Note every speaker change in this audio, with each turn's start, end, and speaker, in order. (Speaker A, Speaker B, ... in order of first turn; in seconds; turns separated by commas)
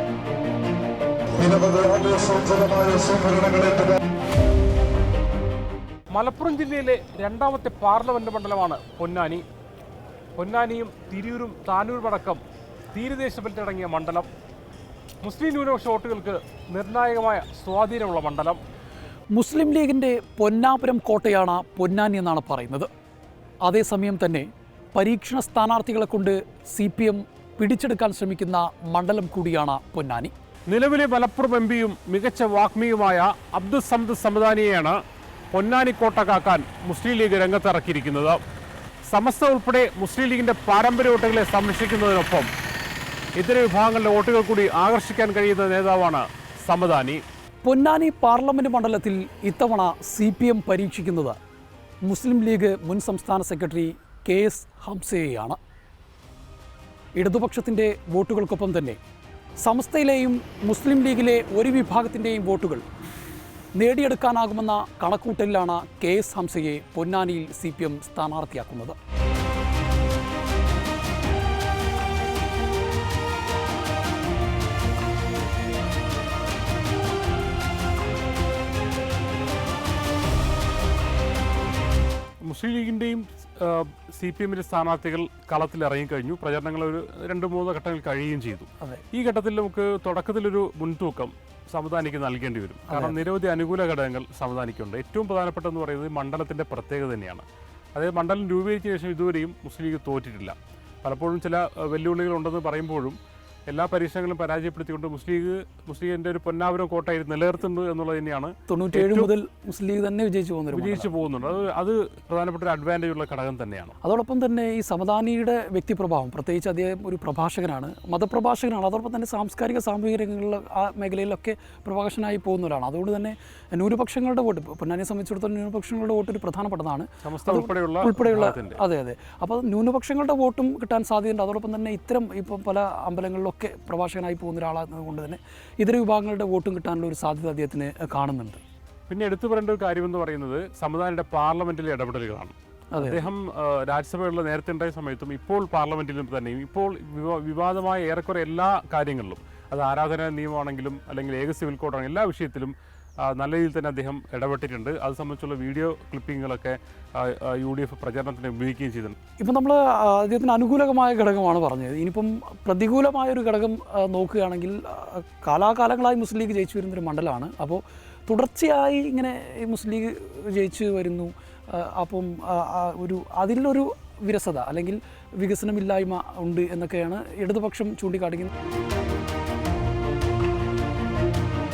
Speaker A: 1.4-3.8, Speaker B: 6.1-9.4, Speaker B: 10.4-12.4, Speaker B: 12.9-14.3, Speaker B: 15.2-18.6, Speaker C: 19.3-22.9, Speaker C: 23.6-30.3, Speaker B: 30.7-35.0, Speaker B: 35.5-38.4, Speaker B: 39.1-42.5, Speaker B: 43.4-47.2, Speaker C: 47.6-51.4, Speaker C: 52.1-55.6, Speaker C: 57.2-59.0, Speaker C: 59.6-62.9, Speaker C: 63.8-69.0, Speaker B: 82.4-103.2, Speaker C: 92.9-93.2, Speaker B: 103.7-109.3, Speaker C: 108.7-111.1, Speaker B: 110.7-114.0, Speaker C: 114.0-138.6, Speaker B: 127.2-128.8, Speaker B: 139.1-159.2, Speaker C: 142.9-143.3, Speaker C: 159.4-178.5